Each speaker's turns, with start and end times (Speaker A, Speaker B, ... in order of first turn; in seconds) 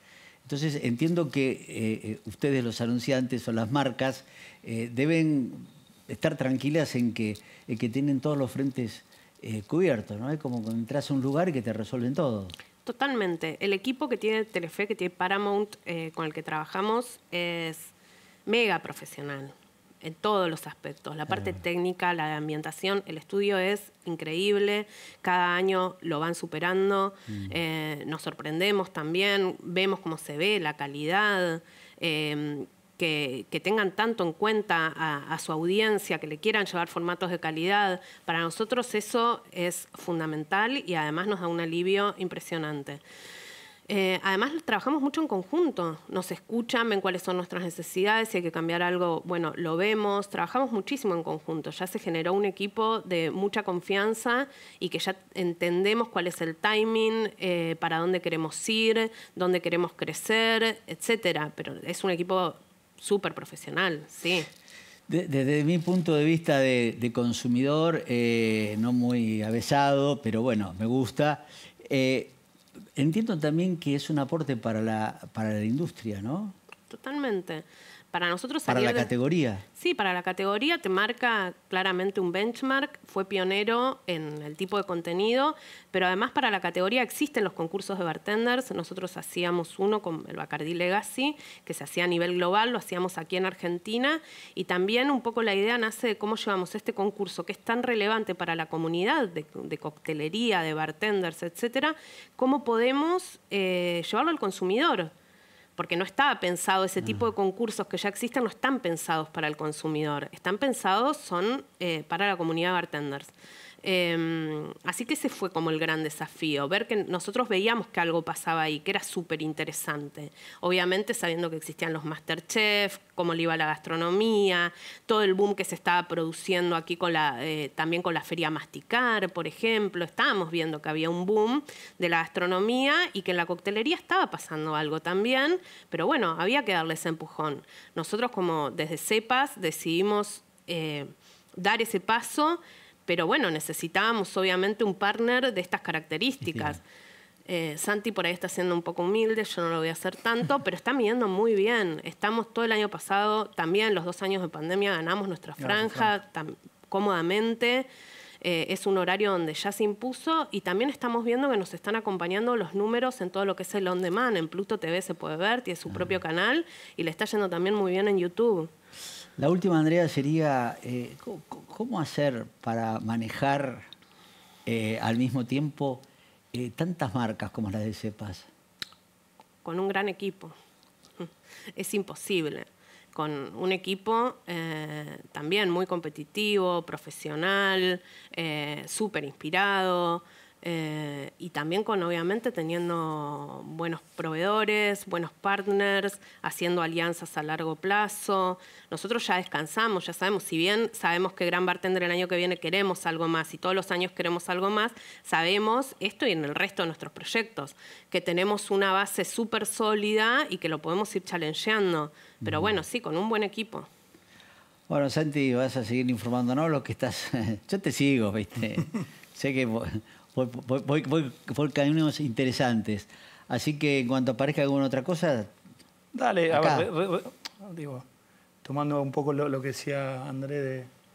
Speaker A: 0.4-12.5, 27.3-27.6, 65.1-72.3, 73.0-76.5, 78.7-79.6, 146.4-146.8, 165.9-166.2, 169.4-173.8, 174.7-178.5, 212.4-212.8, 214.9-225.5, 226.5-226.9
Speaker B: 12.8-17.9, 18.4-43.0, 43.9-64.5, 76.9-79.1, 79.7-105.1, 105.8-113.3, 113.8-146.8, 147.4-157.9, 158.4-168.7, 179.6-180.5, 181.2-213.9
Speaker C: 155.6-156.1, 226.1-228.0, 228.6-230.9